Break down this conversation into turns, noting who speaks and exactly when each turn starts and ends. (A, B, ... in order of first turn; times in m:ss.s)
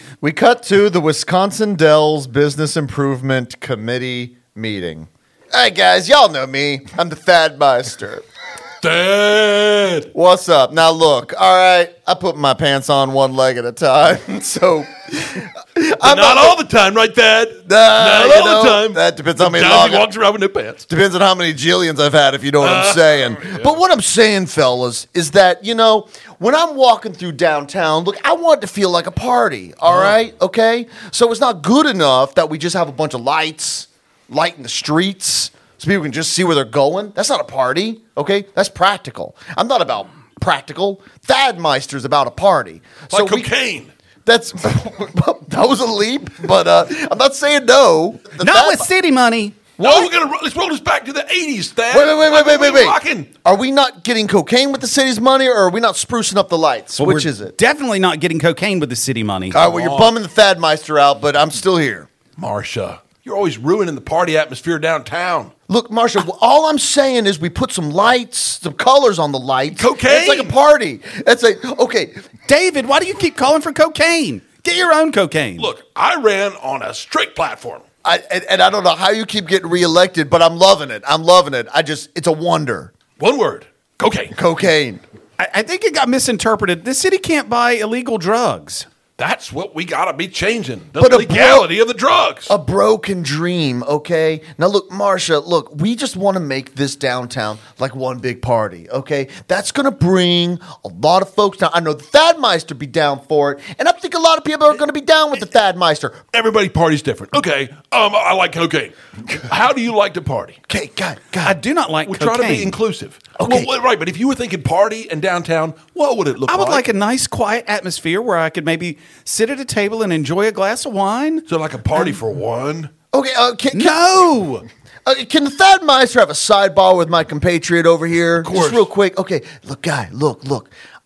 0:00.2-0:08.2 A
0:08.8-0:10.1 B
0:10.1-0:16.6 A
0:16.0-0:20.9 B
0:17.6-0:20.1 A
0:20.9-0:43.5 A
0:22.6-0:23.7 B
0:43.1-0:43.9 B
0:44.2-0:48.9 A
0:48.4-0:49.7 C
0:49.8-0:53.3 B
0:51.9-0:57.5 A
0:57.0-0:59.6 C
0:59.5-1:02.1 A
0:59.5-1:00.1 B
1:02.4-1:05.5 B
1:05.7-1:12.2 A
1:09.7-1:10.5 B
1:12.5-1:15.7 C
1:15.6-1:17.8 B
1:18.0-1:22.9 A
1:23.2-1:24.4 B
1:24.3-1:25.0 A
1:25.4-1:28.9 C
1:29.2-1:32.5 B
1:31.0-1:31.7 A
1:32.5-1:46.2 A
1:46.3-1:50.6 B
1:50.7-1:51.6 A
1:51.4-1:52.8 C
1:52.0-1:56.8 B
1:53.4-1:53.7 A
1:56.5-2:01.4 C
2:01.5-2:02.9 B
2:03.1-2:04.0 A
2:03.7-2:04.6 C
2:05.0-2:10.7 A
2:08.4-2:08.9 B